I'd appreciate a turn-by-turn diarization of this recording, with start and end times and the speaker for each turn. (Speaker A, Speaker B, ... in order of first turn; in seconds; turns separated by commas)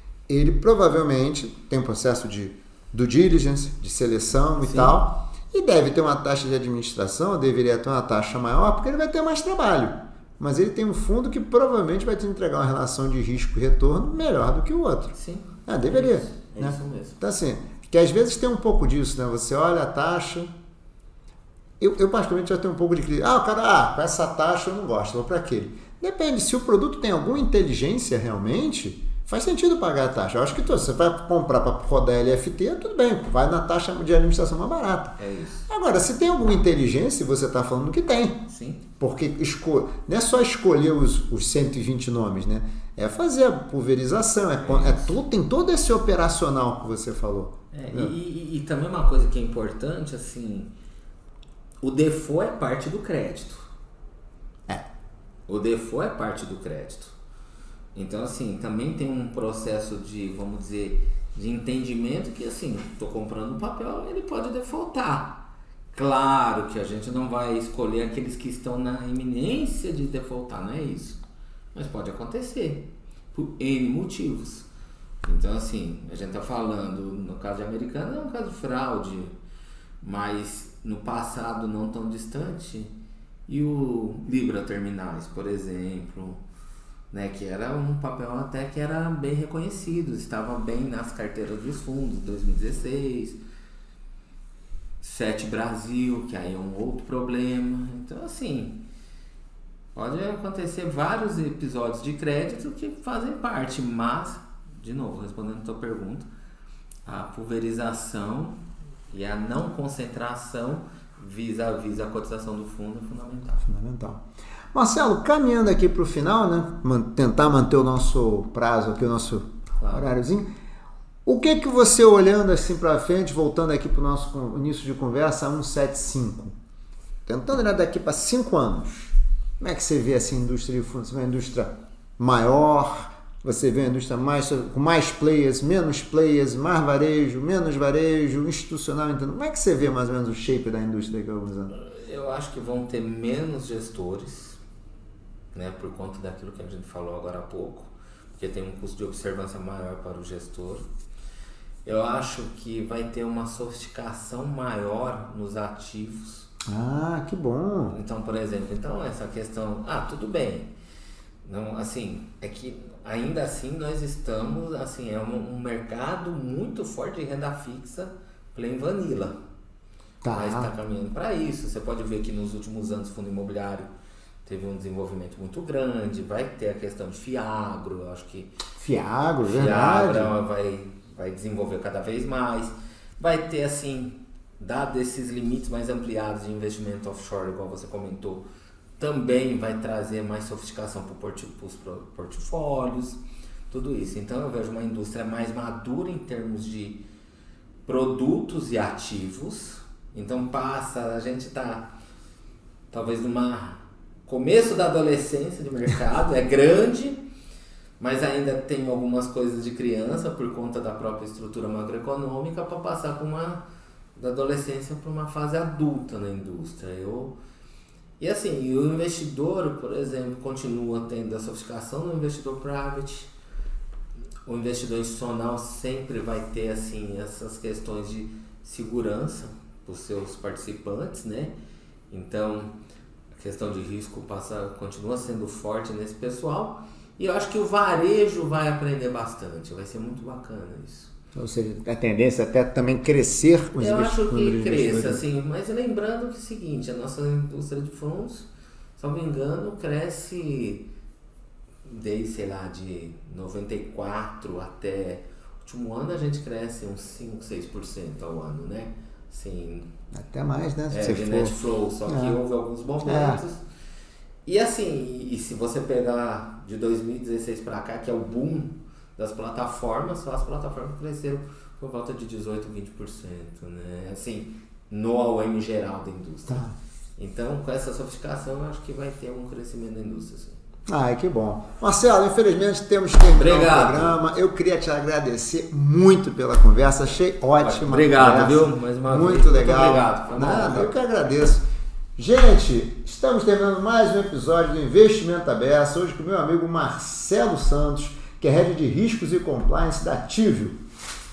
Speaker A: 0.3-15.1, Speaker B: 4.6-5.0, Speaker B: 15.1-17.2, Speaker A: 15.7-20.5, Speaker A: 21.8-35.1, Speaker B: 35.2-35.7, Speaker A: 35.7-38.4, Speaker B: 38.5-38.8, Speaker A: 39.0-48.1, Speaker B: 44.6-45.2, Speaker B: 47.7-50.7, Speaker B: 51.8-53.7, Speaker B: 55.5-57.1, Speaker B: 58.0-71.2, Speaker B: 71.7-74.7, Speaker B: 75.2-79.3, Speaker B: 80.0-82.9, Speaker B: 83.5-86.4, Speaker B: 87.1-93.4, Speaker B: 95.0-98.8, Speaker B: 99.9-106.3, Speaker B: 107.0-108.5, Speaker B: 109.1-113.7, Speaker A: 113.6-120.5, Speaker B: 119.8-120.1, Speaker A: 121.2-126.5, Speaker A: 127.2-141.7, Speaker B: 141.7-144.6, Speaker B: 145.5-150.8, Speaker B: 151.8-156.5, Speaker A: 156.7-157.9, Speaker B: 157.9-160.7, Speaker B: 161.4-169.3, Speaker A: 170.2-170.7, Speaker B: 170.3-173.9, Speaker B: 174.4-178.6, Speaker A: 178.8-180.3, Speaker B: 179.4-188.4, Speaker B: 189.0-197.0, Speaker B: 197.8-201.9, Speaker B: 202.9-207.2, Speaker B: 208.0-213.6, Speaker B: 214.2-217.3, Speaker B: 218.2-223.3, Speaker B: 224.4-231.5, Speaker B: 232.1-232.7, Speaker B: 233.4-241.1, Speaker A: 241.3-245.2, Speaker B: 243.8-248.5, Speaker B: 249.0-250.8, Speaker B: 251.8-259.9, Speaker A: 260.1-261.5, Speaker B: 260.9-263.6, Speaker A: 262.1-262.4, Speaker A: 263.0-263.4, Speaker B: 264.4-280.6, Speaker A: 276.5-276.7, Speaker A: 280.9-291.6, Speaker B: 283.3-284.2, Speaker B: 287.6-290.9, Speaker A: 292.2-300.8